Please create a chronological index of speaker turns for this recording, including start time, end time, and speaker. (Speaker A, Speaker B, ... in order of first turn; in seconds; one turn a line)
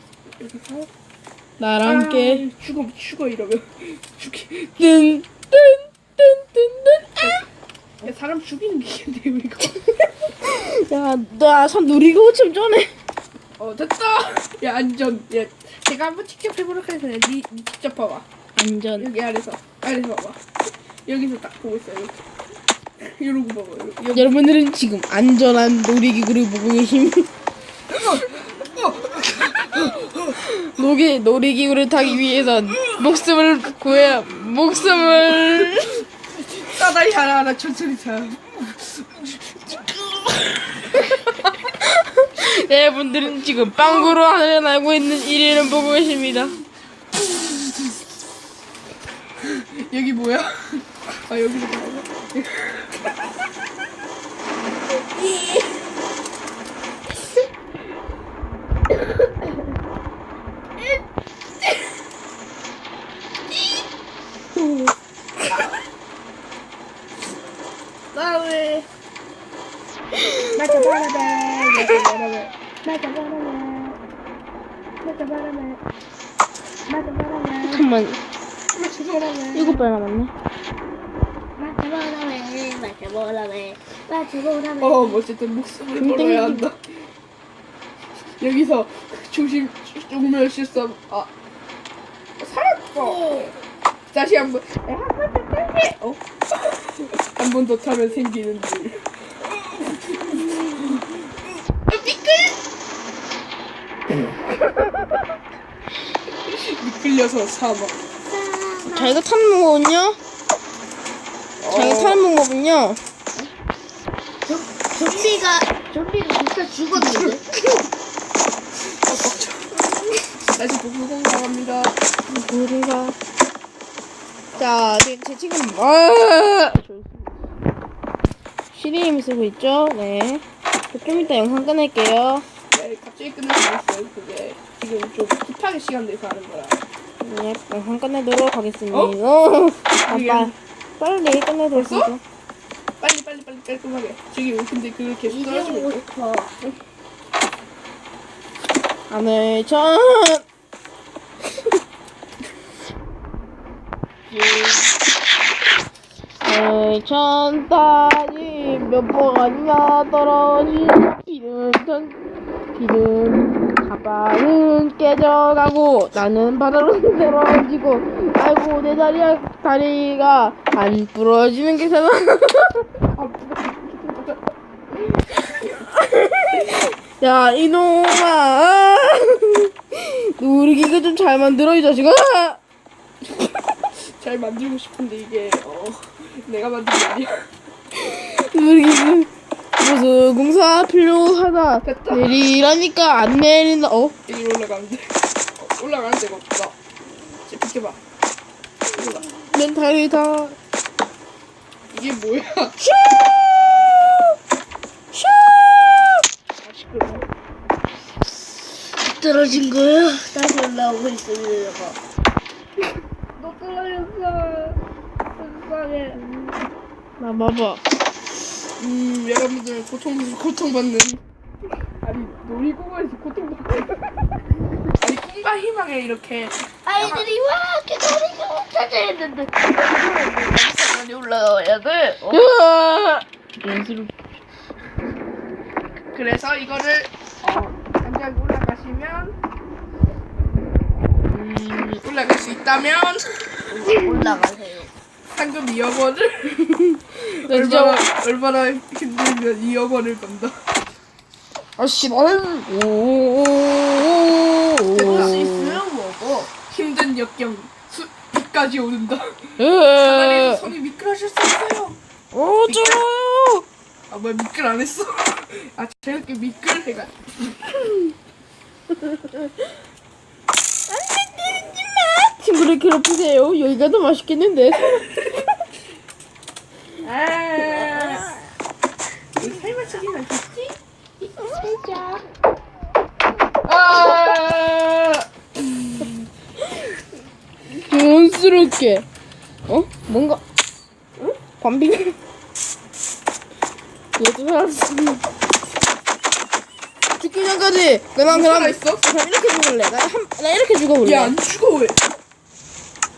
Speaker A: 0.4-0.9
Speaker B: 1.6-2.4
Speaker A: 1.8-4.8
Speaker B: 4.8-7.4
Speaker A: 7.2-7.5
Speaker A: 8.0-9.8
Speaker B: 10.4-12.9
Speaker A: 13.6-18.3
Speaker B: 18.6-19.1
Speaker A: 19.0-20.4
Speaker A: 21.1-22.2
Speaker A: 23.0-24.3
Speaker B: 24.1-27.3
Speaker A: 27.9-30.4
Speaker B: 30.4-36.0
Speaker A: 32.1-33.1
Speaker A: 36.3-41.5
Speaker B: 41.8-46.6
Speaker A: 43.5-44.1
Speaker A: 47.2-47.9
Speaker A: 49.4-52.9
Speaker A: 64.5-65.0
Speaker C: 68.1-68.9
Speaker A: 70.5-72.5
Speaker C: 72.8-74.0
Speaker A: 75.0-75.8
Speaker A: 76.9-77.4
Speaker C: 77.3-77.6
Speaker B: 77.7-78.2
Speaker A: 78.7-79.9
Speaker B: 79.5-80.3
Speaker C: 81.6-85.2
Speaker A: 84.8-86.9
Speaker B: 86.0-86.7
Speaker A: 88.4-91.3
Speaker A: 92.4-93.5
Speaker A: 94.1-101.0
Speaker A: 101.9-102.6
Speaker A: 106.5-108.0
Speaker C: 108.3-109.2
Speaker B: 108.8-110.2
Speaker A: 111.6-112.2
Speaker B: 111.7-113.0
Speaker C: 114.5-117.5
Speaker A: 117.0-117.4
Speaker A: 118.8-122.0
Speaker B: 122.3-123.2
Speaker B: 124.5-127.0
Speaker B: 128.7-132.4
Speaker A: 132.7-136.8
Speaker B: 137.2-142.2
Speaker A: 140.1-140.6
Speaker A: 141.7-142.2
Speaker A: 143.0-146.0
Speaker C: 145.3-146.7
Speaker B: 149.1-150.4
Speaker A: 154.3-155.0
Speaker B: 156.4-162.2
Speaker B: 162.8-172.9
Speaker A: 173.1-174.4
Speaker B: 175.7-182.6
Speaker A: 183.3-187.5
Speaker B: 187.9-194.2
Speaker A: 191.8-192.4
Speaker A: 194.3-196.8
Speaker A: 197.3-198.0
Speaker A: 198.9-199.3
Speaker B: 199.3-200.6
Speaker A: 201.9-202.8
Speaker B: 203.0-204.2
Speaker B: 205.1-206.2
Speaker A: 206.6-207.3
Speaker C: 208.9-212.0
Speaker A: 213.4-214.8
Speaker A: 215.4-216.2
Speaker B: 217.2-217.8
Speaker A: 218.8-221.2
Speaker A: 222.0-224.0
Speaker A: 224.9-227.3
Speaker C: 226.9-232.4
Speaker B: 232.3-234.3
Speaker A: 236.1-239.3
Speaker A: 241.6-243.8
Speaker C: 243.7-244.9
Speaker A: 245.3-250.6
Speaker B: 246.8-248.0
Speaker B: 251.8-255.8
Speaker A: 254.9-255.6
Speaker C: 255.0-256.5
Speaker A: 256.6-262.0
Speaker B: 259.6-260.7
Speaker B: 262.3-263.6
Speaker A: 262.7-263.0
Speaker A: 264.1-267.9
Speaker B: 271.4-275.0
Speaker A: 277.0-278.3
Speaker A: 279.4-280.8
Speaker A: 283.6-286.1
Speaker B: 287.7-289.1
Speaker B: 289.7-290.4
Speaker B: 291.6-292.2
Speaker B: 294.2-295.3
Speaker B: 297.2-301.3
Speaker A: 298.3-299.1
Speaker A: 301.0-302.0